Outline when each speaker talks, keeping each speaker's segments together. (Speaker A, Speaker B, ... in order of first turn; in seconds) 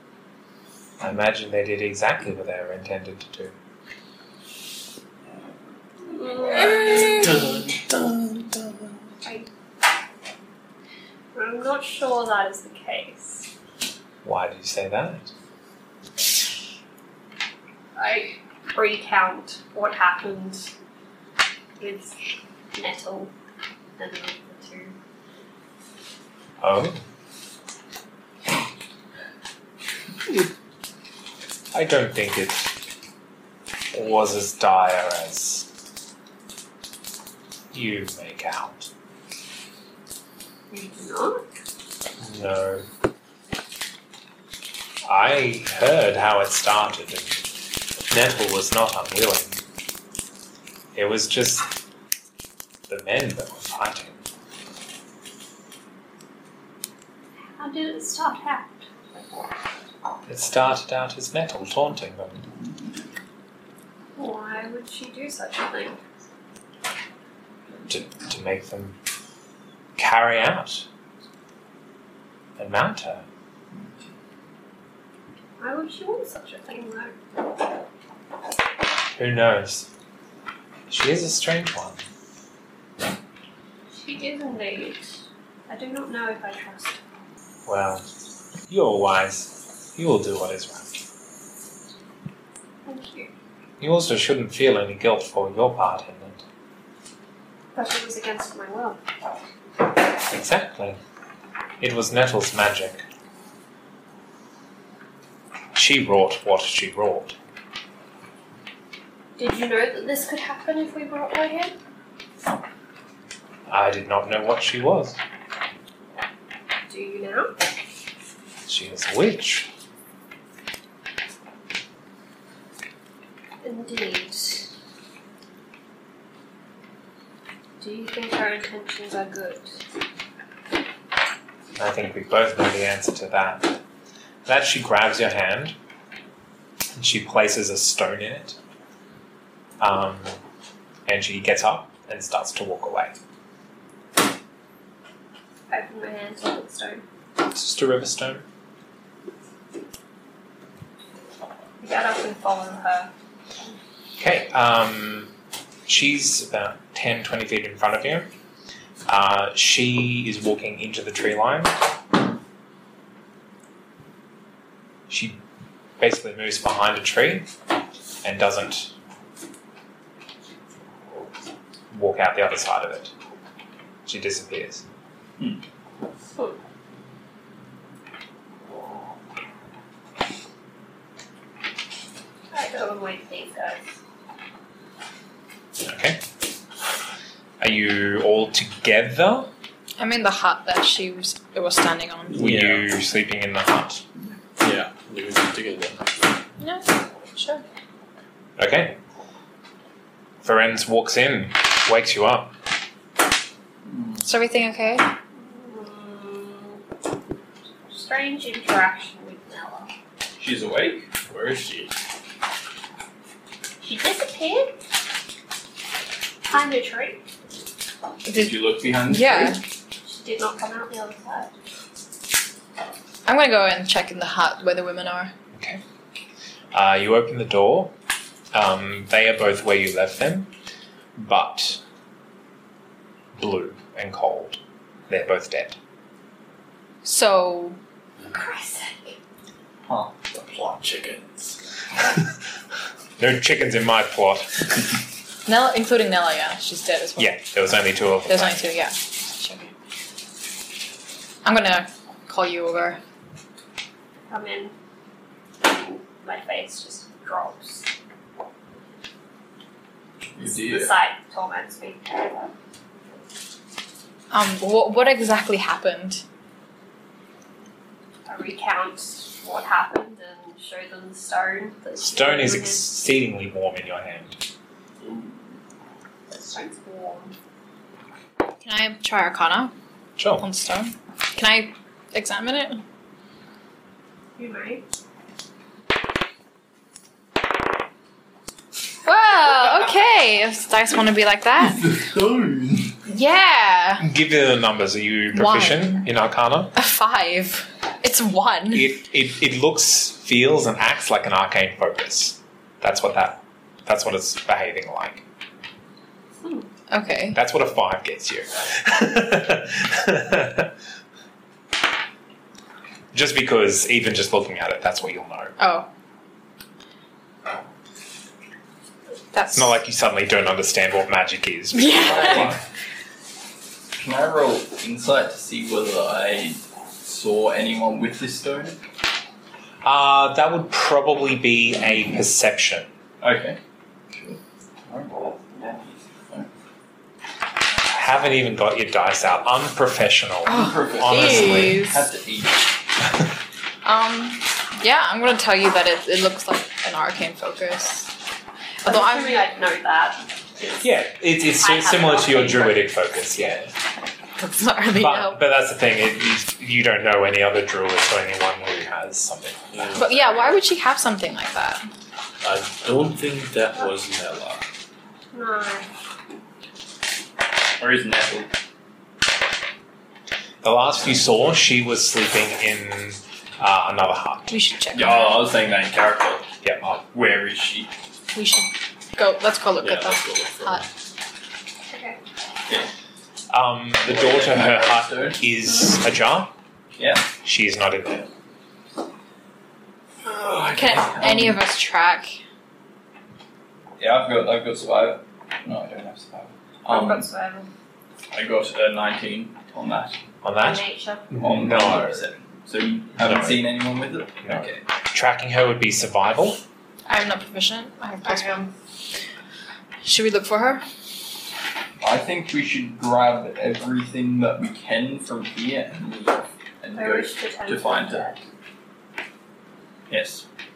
Speaker A: 1.0-3.5, 14.2-15.3, 26.6-27.0, 31.7-32.7, 33.9-35.7, 37.7-38.9, 42.2-42.9, 45.0-47.3, 48.1-49.5, 50.9-51.7, 52.9-54.2, 60.3-62.4, 67.9-69.0, 70.0-70.8, 72.6-73.2, 79.2-79.9, 80.9-82.0, 87.7-88.0, 88.7-90.9, 93.8-96.4, 100.3-101.0, 101.8-103.0, 105.7-107.3, 113.7-115.2, 118.7-119.7, 131.8-133.8, 134.4-135.8, 136.9-138.6, 139.8-140.3, 141.1-143.1, 147.4-148.4, 154.2-155.3, 155.8-158.3, 159.1-161.7, 165.1-165.4, 166.0-167.5, 168.2-168.9, 171.9-173.1, 174.0-174.8, 185.8-186.2, 187.6-189.5, 192.3-194.0, 198.6-199.0, 200.4-202.5, 225.6-225.8, 226.7-227.9, 228.5-230.5, 231.2-231.8, 233.4-235.8, 243.2-244.8, 247.2-248.7, 272.0-274.4, 280.2-280.4, 294.0-296.7, 298.7-305.2, 307.3-310.7, 313.1-315.5, 319.5-322.6, 329.8-332.9, 337.9-341.8, 350.8-353.7, 354.9-359.8, 370.6-374.5, 376.6-377.0, 383.5-386.5, 387.4-388.3, 400.4-402.2, 403.2-403.7, 404.4-406.6
Speaker B: 6.0-7.5, 9.2-9.5, 11.3-13.5, 17.9-20.7, 21.8-22.2, 22.7-23.3, 24.0-24.9, 40.7-41.4, 57.6-59.2, 64.2-66.0, 75.6-77.2, 83.9-85.2, 85.7-87.0, 92.8-93.3, 97.7-99.0, 109.4-111.8, 116.9-117.5, 123.6-124.7, 127.8-129.7, 145.7-147.0, 151.8-153.1, 182.5-183.9, 205.3-206.8, 207.9-209.9, 213.8-214.7, 216.5-217.2, 220.0-221.5, 238.3-239.2, 254.3-254.7, 255.6-257.9, 260.4-262.5, 268.2-272.9, 276.3-277.3, 284.4-284.8, 306.4-306.7, 348.8-352.9, 365.3-365.9, 381.9-382.2, 396.9-397.7, 400.6-401.3, 408.2-408.7, 416.9-418.4
Speaker C: 6.9-8.9, 192.3-192.9, 194.6-196.0, 211.2-211.9, 240.3-241.5, 359.7-360.2, 362.4-364.6, 379.8-380.9
Speaker D: 190.0-192.5, 196.6-197.6, 204.2-205.1, 218.3-219.6, 223.2-225.3, 237.0-237.8, 245.4-247.4, 248.3-249.7, 251.4-253.0, 264.3-266.2, 278.6-279.7, 280.4-282.8, 289.0-291.9, 293.1-294.1, 295.3-296.1, 296.7-298.9, 306.9-307.4, 315.6-315.9, 319.3-319.7, 321.7-322.5, 340.4-342.0, 343.8-348.1, 348.8-349.4, 354.4-355.4, 359.9-361.9, 374.5-375.5, 378.3-380.9, 390.7-392.4, 407.1-408.6, 410.0-410.8
Speaker E: 203.8-204.2, 210.4-211.1, 218.3-219.6, 239.9-240.2, 260.3-260.9, 291.8-292.8, 321.9-322.6, 323.9-328.8, 333.2-333.6, 334.1-336.5, 340.4-342.7, 367.8-368.5, 374.9-376.4, 377.0-377.9, 384.0-385.5, 387.0-387.2, 390.2-391.6, 394.0-397.2, 398.3-400.1, 401.4-404.8, 412.0-418.3, 420.1-420.4